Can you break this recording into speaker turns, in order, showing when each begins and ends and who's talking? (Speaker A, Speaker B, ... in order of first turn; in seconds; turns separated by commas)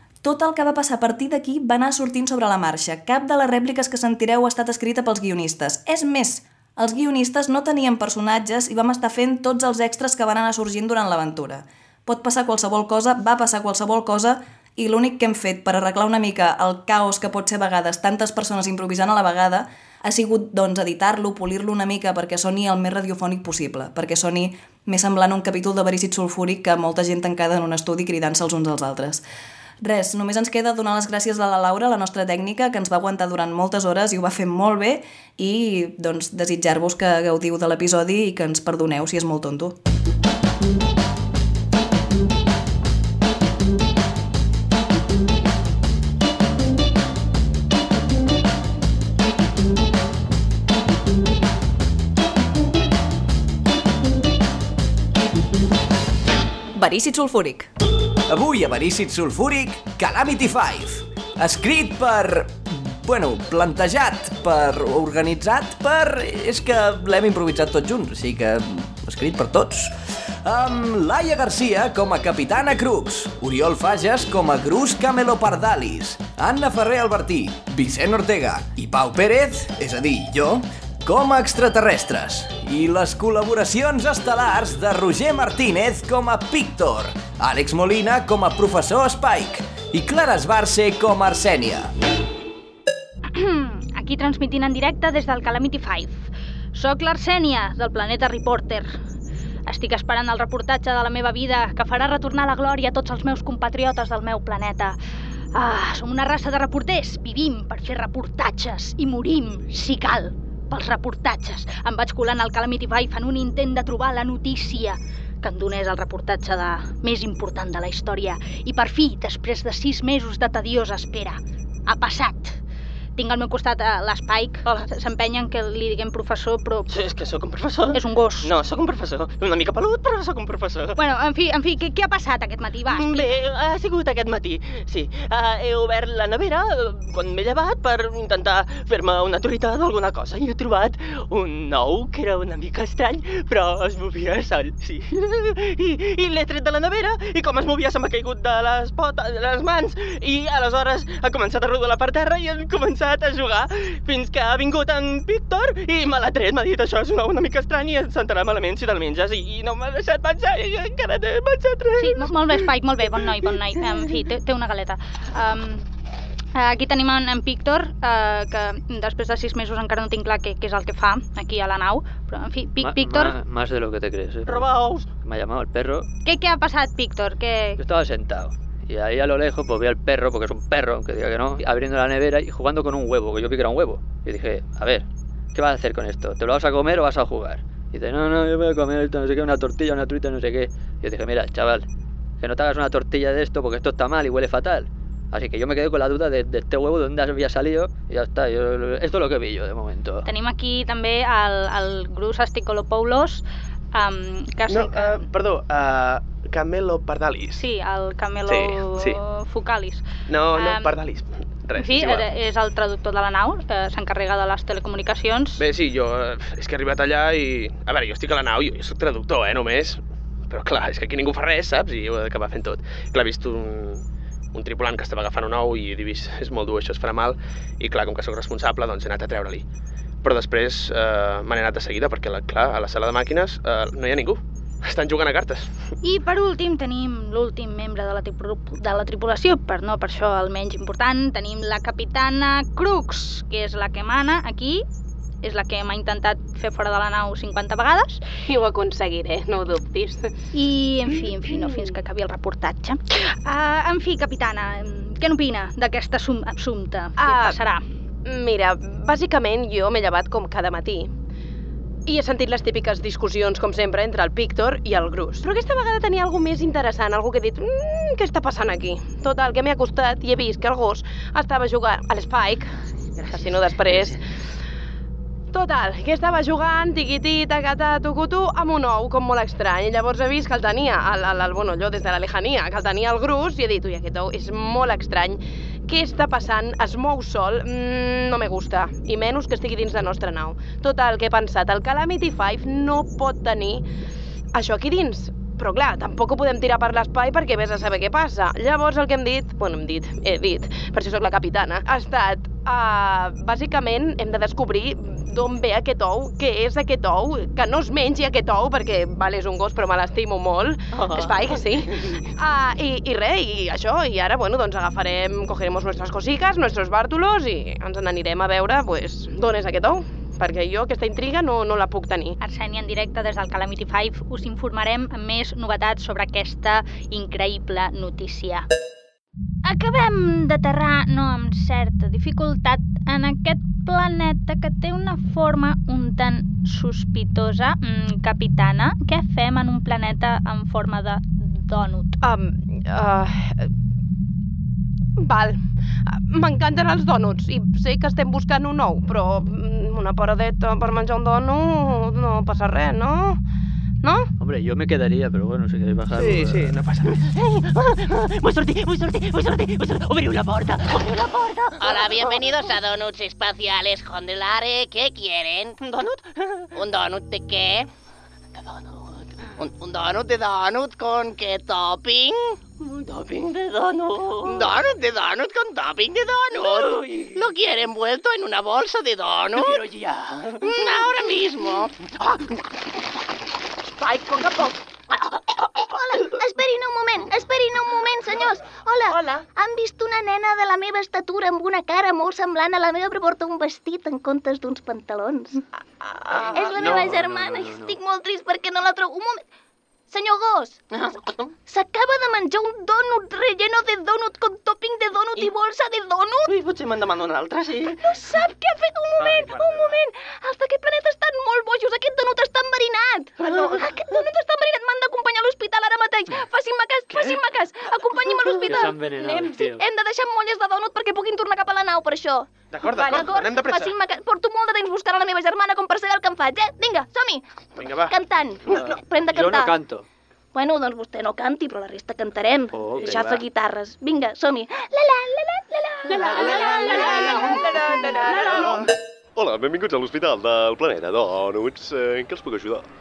Speaker A: 0.2-29.2, Speaker A: 29.8-39.8, Speaker A: 56.8-57.6, Speaker B: 58.3-69.9, Speaker B: 70.5-91.9, Speaker C: 93.3-98.9, Speaker C: 99.7-105.0, Speaker C: 105.5-122.6, Speaker C: 123.2-126.9, Speaker D: 126.9-131.0, Speaker C: 127.9-128.5, Speaker C: 131.0-133.4, Speaker D: 132.9-164.1, Speaker C: 162.0-165.9, Speaker C: 166.6-173.4, Speaker E: 172.8-174.7, Speaker D: 174.5-175.1, Speaker E: 175.2-176.1, Speaker C: 176.2-177.8, Speaker E: 177.8-191.9, Speaker E: 192.4-200.3, Speaker C: 200.2-205.3, Speaker F: 204.7-207.6, Speaker C: 207.5-211.0, Speaker F: 208.5-209.2, Speaker F: 210.3-212.3, Speaker C: 211.8-215.6, Speaker F: 215.6-229.7, Speaker F: 230.2-235.7, Speaker C: 236.0-244.8, Speaker C: 245.4-248.2, Speaker G: 248.5-250.3, Speaker C: 250.5-257.8, Speaker G: 257.2-257.6, Speaker G: 258.2-261.1, Speaker G: 262.1-272.7, Speaker G: 273.3-274.2, Speaker G: 275.5-293.8, Speaker G: 294.5-322.4, Speaker D: 310.9-312.2, Speaker C: 322.4-328.7, Speaker C: 329.6-342.2, Speaker G: 342.2-343.7, Speaker G: 345.2-353.4, Speaker G: 354.0-354.3, Speaker E: 354.4-356.8, Speaker F: 356.1-357.3, Speaker D: 357.2-362.5, Speaker H: 361.8-365.8, Speaker D: 365.8-366.8, Speaker H: 366.8-367.9, Speaker H: 369.6-372.6, Speaker D: 372.8-374.7, Speaker H: 374.4-379.9, Speaker D: 376.7-377.5, Speaker D: 379.6-380.7, Speaker H: 380.6-382.4, Speaker G: 384.0-384.8, Speaker I: 386.0-395.6, Speaker G: 389.1-389.5, Speaker G: 396.0-396.9, Speaker I: 396.4-399.4, Speaker F: 396.7-397.2, Speaker E: 396.9-397.9, Speaker I: 400.1-400.8, Speaker D: 400.9-401.5, Speaker I: 401.7-406.6, Speaker D: 406.5-408.0, Speaker I: 408.0-429.8, Speaker F: 409.2-410.0, Speaker D: 413.4-413.9, Speaker F: 417.1-417.4, Speaker E: 418.6-419.8, Speaker F: 422.7-423.9, Speaker G: 423.0-423.3, Speaker F: 427.8-428.1, Speaker E: 428.7-430.1, Speaker I: 430.5-438.9, Speaker E: 432.7-433.4, Speaker G: 436.1-438.9, Speaker F: 438.6-438.9, Speaker J: 439.4-442.9